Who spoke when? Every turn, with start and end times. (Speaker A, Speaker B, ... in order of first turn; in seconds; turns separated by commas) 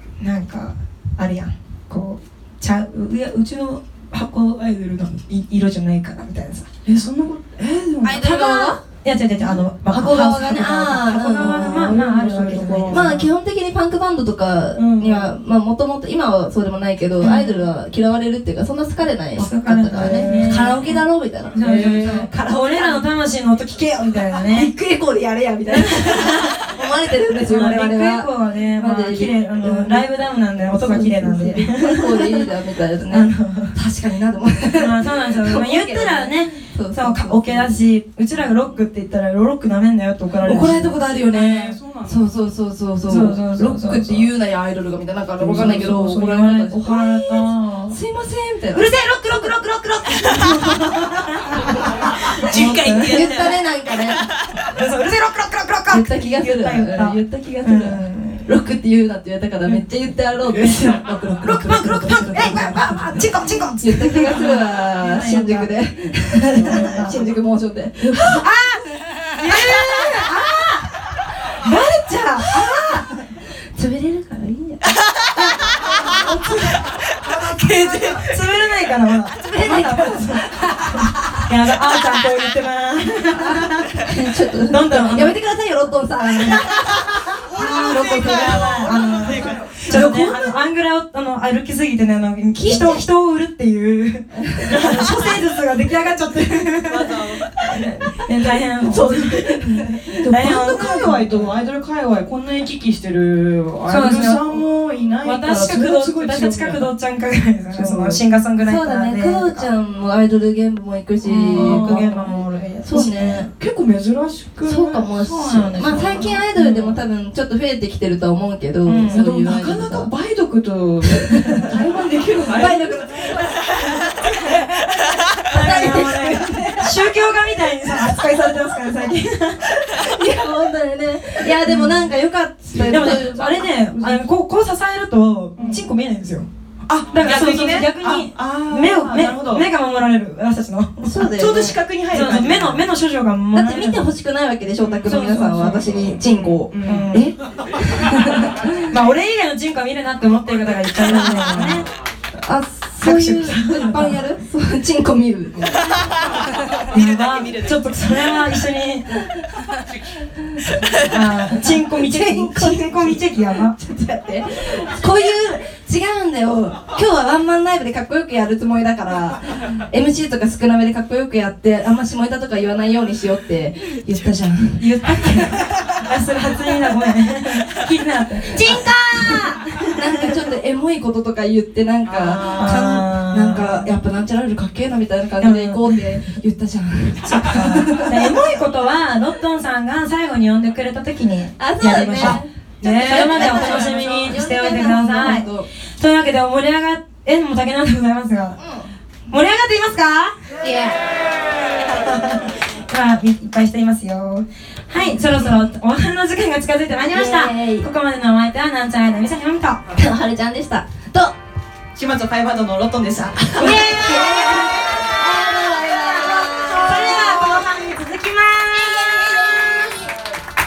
Speaker A: 0.2-6.7, Speaker B: 6.8-8.2, Speaker C: 8.0-8.8, Speaker A: 8.2-13.3, Speaker C: 9.9-12.0, Speaker B: 11.1-13.2, Speaker C: 12.9-23.1, Speaker B: 14.7-15.3, Speaker A: 17.2-17.7, Speaker A: 19.4-24.7, Speaker B: 20.0-20.8, Speaker B: 21.5-22.3, Speaker C: 24.3-30.1, Speaker A: 25.7-26.5, Speaker A: 27.4-32.5, Speaker C: 30.6-37.8, Speaker A: 33.1-33.7, Speaker A: 34.8-41.0, Speaker B: 38.3-38.7, Speaker C: 40.4-48.9, Speaker B: 41.2-42.3, Speaker A: 43.0-44.3, Speaker A: 45.4-48.0, Speaker B: 45.4-46.0, Speaker A: 48.7-53.4, Speaker B: 52.0-53.6, Speaker C: 53.0-54.2, Speaker B: 54.2-54.6, Speaker A: 54.7-58.5, Speaker C: 55.9-63.3, Speaker B: 60.5-60.8, Speaker A: 61.4-65.8, Speaker C: 63.8-68.4, Speaker A: 66.4-67.2, Speaker B: 66.4-67.3, Speaker A: 68.0-68.8, Speaker A: 69.3-70.9, Speaker C: 69.5-70.2, Speaker A: 71.6-73.2, Speaker C: 72.7-74.9, Speaker C: 75.6-76.3, Speaker A: 76.0-76.3, Speaker B: 77.2-78.3, Speaker A: 78.1-84.0, Speaker C: 79.4-81.4, Speaker C: 84.0-89.3, Speaker A: 84.7-85.4, Speaker A: 86.1-86.6, Speaker B: 87.2-90.6, Speaker A: 87.6-101.5, Speaker C: 92.6-93.0, Speaker B: 94.6-95.4, Speaker B: 96.8-97.6, Speaker C: 98.8-100.2, Speaker B: 100.1-106.9, Speaker A: 103.9-104.7, Speaker A: 105.2-109.7, Speaker B: 107.7-108.2, Speaker C: 108.6-112.3, Speaker A: 111.2-113.5, Speaker B: 111.4-112.7, Speaker C: 112.8-113.5, Speaker B: 113.6-116.2, Speaker C: 114.6-120.1, Speaker A: 115.2-117.0, Speaker A: 118.8-119.2, Speaker B: 119.1-123.3, Speaker C: 121.2-121.7, Speaker C: 122.5-124.7, Speaker C: 125.5-127.0, Speaker A: 125.5-129.6, Speaker C: 129.7-133.7, Speaker A: 131.6-132.1, Speaker A: 132.7-136.5, Speaker B: 132.8-134.3, Speaker B: 135.6-135.9, Speaker B: 136.9-139.7, Speaker A: 137.1-141.3, Speaker C: 141.0-141.8, Speaker B: 141.2-142.9, Speaker A: 142.1-144.1, Speaker C: 143.5-148.6, Speaker B: 144.8-147.1, Speaker A: 145.1-146.0, Speaker A: 146.8-147.3, Speaker A: 148.9-151.9, Speaker C: 151.1-151.8, Speaker B: 151.2-151.5, Speaker C: 152.4-155.7, Speaker A: 153.0-154.2, Speaker B: 156.9-157.9, Speaker A: 156.9-159.1, Speaker A: 161.1-163.7, Speaker C: 161.6-174.8, Speaker A: 174.8-180.3, Speaker C: 179.9-188.5, Speaker B: 182.0-183.1, Speaker A: 182.6-183.9, Speaker A: 185.4-186.1, Speaker A: 187.2-198.6, Speaker C: 191.6-195.7, Speaker B: 192.8-194.4, Speaker C: 198.6-198.9, Speaker A: 199.3-200.3, Speaker C: 200.6-201.1, Speaker A: 201.9-209.8, Speaker C: 205.0-205.7, Speaker C: 207.1-207.9, Speaker C: 209.9-211.3, Speaker B: 211.9-213.9, Speaker C: 213.6-217.6, Speaker A: 213.6-219.5, Speaker B: 217.1-217.6, Speaker C: 218.7-220.1